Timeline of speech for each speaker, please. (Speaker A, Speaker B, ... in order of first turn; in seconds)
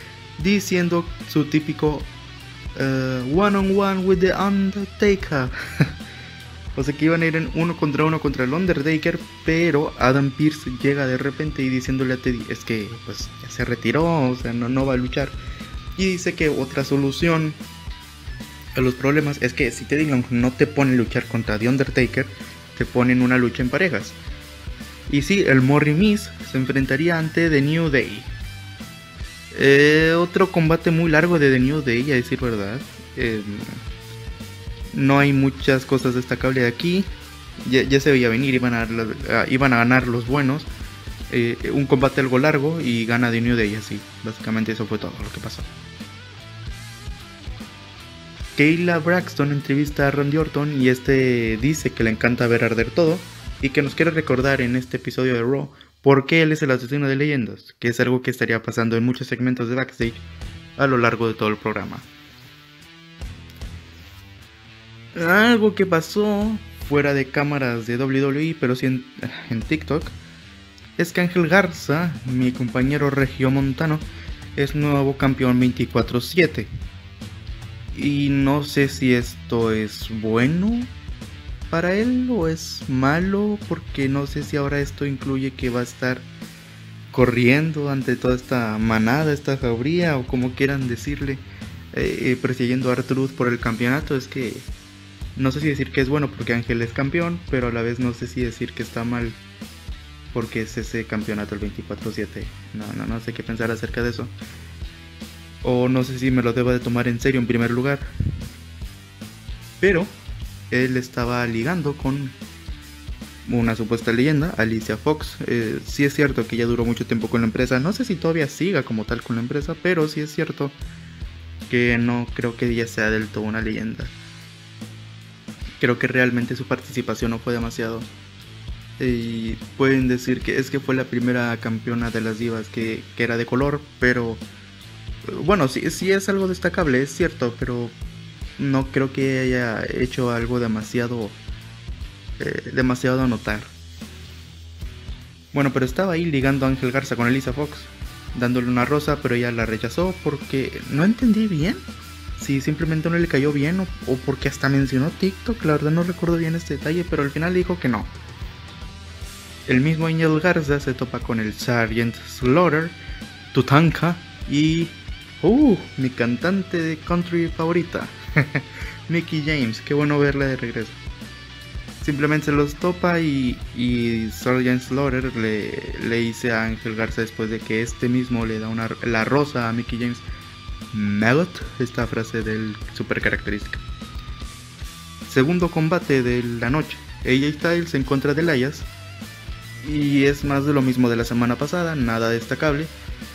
Speaker A: 0.4-2.1, 2.8-5.9, 6.8-15.4, 15.9-17.6, 18.7-24.2, 25.1-28.3, 29.5-33.8, 34.9-37.1, 37.6-40.7, 41.3-45.7, 48.5-60.2, 60.8-62.1, 65.1-70.2, 71.0-76.7, 77.9-80.9, 81.7-86.3, 87.1-94.7, 95.3-99.4, 100.3-104.3, 105.6-108.1, 109.8-110.2, 110.7-112.4, 113.5-120.8, 121.7-124.1, 125.8-128.1, 129.0-134.4, 135.3-137.9, 138.6-141.4, 142.4-143.7, 145.5-151.8, 152.4-158.1, 159.7-163.0, 163.5-171.0, 172.0-180.2, 180.9-183.8, 185.3-188.9, 189.8-192.9